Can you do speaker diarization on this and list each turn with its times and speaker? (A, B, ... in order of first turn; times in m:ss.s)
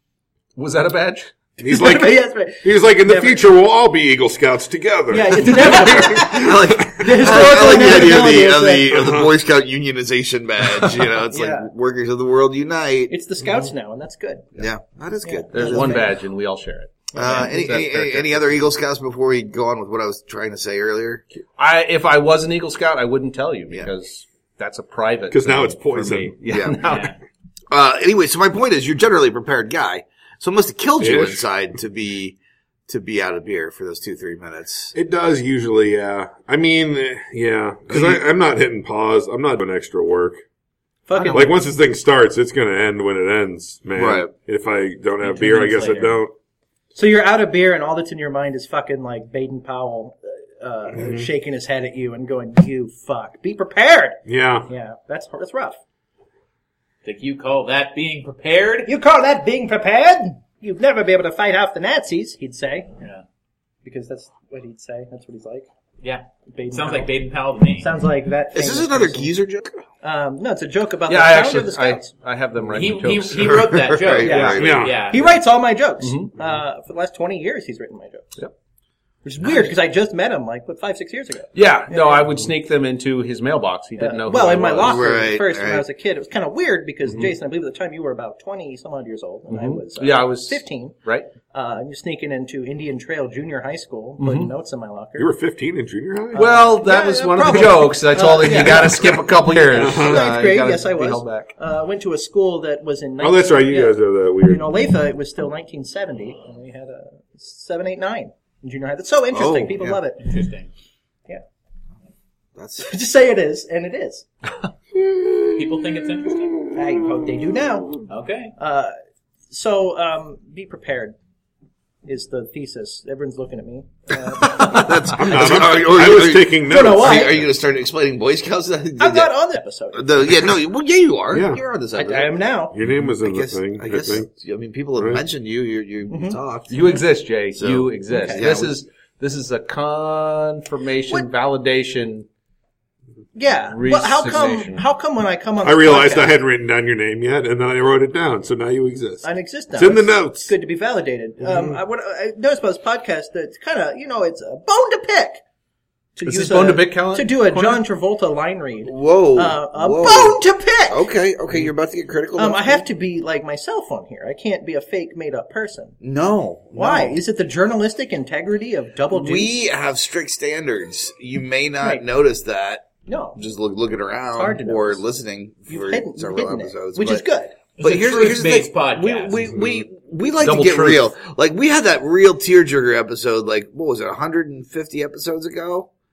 0:00.6-0:01.3 A
0:01.6-0:07.2 B
0:01.6-0:03.4 C
0:05.1-0:08.9 C
0:06.2-0:13.1 D
0:08.9-0:09.3 B
0:11.3-0:11.7 C
0:13.1-0:14.5 C
0:14.6-0:16.0 D
0:15.2-0:16.1 C
0:15.5-0:18.5 A
0:17.1-0:17.5 C
0:17.1-0:21.2 D
0:21.6-0:27.1 A
0:25.3-0:26.4 B
0:26.5-0:26.8 D
0:26.8-0:27.1 E
0:27.7-0:32.4 D
0:31.0-0:31.4 B
0:32.9-0:34.9 D
0:34.9-0:40.4 B
0:37.9-0:38.2 D
0:41.1-0:41.5 C
0:41.3-0:46.3 B
0:44.0-0:44.3 D
0:45.2-0:46.2 E
0:46.9-0:55.8 C
0:51.0-0:51.3 B
0:54.3-0:54.7 B
0:57.0-0:58.9 E
0:58.8-1:02.9 C
1:03.8-1:05.6 C
1:06.0-1:07.9 E
1:06.5-1:07.1 C
1:07.8-1:09.3 C
1:08.5-1:09.8 D
1:10.0-1:12.1 C
1:11.1-1:13.6 A
1:12.7-1:15.3 E
1:13.4-1:14.9 D
1:14.2-1:18.4 C
1:14.3-1:14.6 A
1:14.6-1:15.0 B
1:16.0-1:16.4 A
1:19.2-1:22.4 C
1:19.4-1:19.7 A
1:21.5-1:25.2 A
1:24.0-1:30.9 C
1:24.8-1:25.8 D
1:27.0-1:27.3 A
1:29.5-1:31.3 A
1:31.5-1:35.3 C
1:34.2-1:34.5 A
1:35.2-1:36.5 B
1:36.3-1:50.2 C
1:36.3-1:41.5 A
1:39.7-1:40.3 B
1:43.2-1:44.7 B
1:49.3-1:50.0 D
1:50.2-1:50.7 E
1:52.6-1:52.9 D
1:52.8-1:54.3 C
1:55.6-1:56.5 E
1:56.7-1:58.0 C
1:58.1-1:58.5 E
1:58.6-1:58.9 C
1:59.5-2:01.2 C
2:02.0-2:04.9 C
2:04.6-2:09.3 D
2:05.2-2:07.4 B
2:06.7-2:07.4 C
2:09.0-2:10.3 C
2:09.9-2:17.0 D
2:11.3-2:11.6 B
2:11.9-2:12.7 C
2:12.7-2:14.3 B
2:15.0-2:15.2 B
2:16.1-2:17.0 C
2:16.7-2:22.3 A
2:17.5-2:18.7 D
2:18.1-2:18.4 C
2:23.3-2:26.3 C
2:23.7-2:24.8 A
2:25.6-2:30.5 B
2:29.2-2:35.4 C
2:31.4-2:31.8 B
2:36.2-2:41.0 C
2:36.2-2:37.8 A
2:38.8-2:40.4 D
2:40.9-2:42.8 D
2:42.4-2:46.0 C
2:46.0-2:47.2 D
2:46.7-2:49.7 C
2:49.1-2:57.2 D
2:53.1-2:53.4 C
2:54.3-2:55.0 C
2:55.7-2:57.5 C
2:57.8-2:59.3 E
2:57.8-3:05.9 D
2:59.6-2:59.8 B
3:00.4-3:01.1 A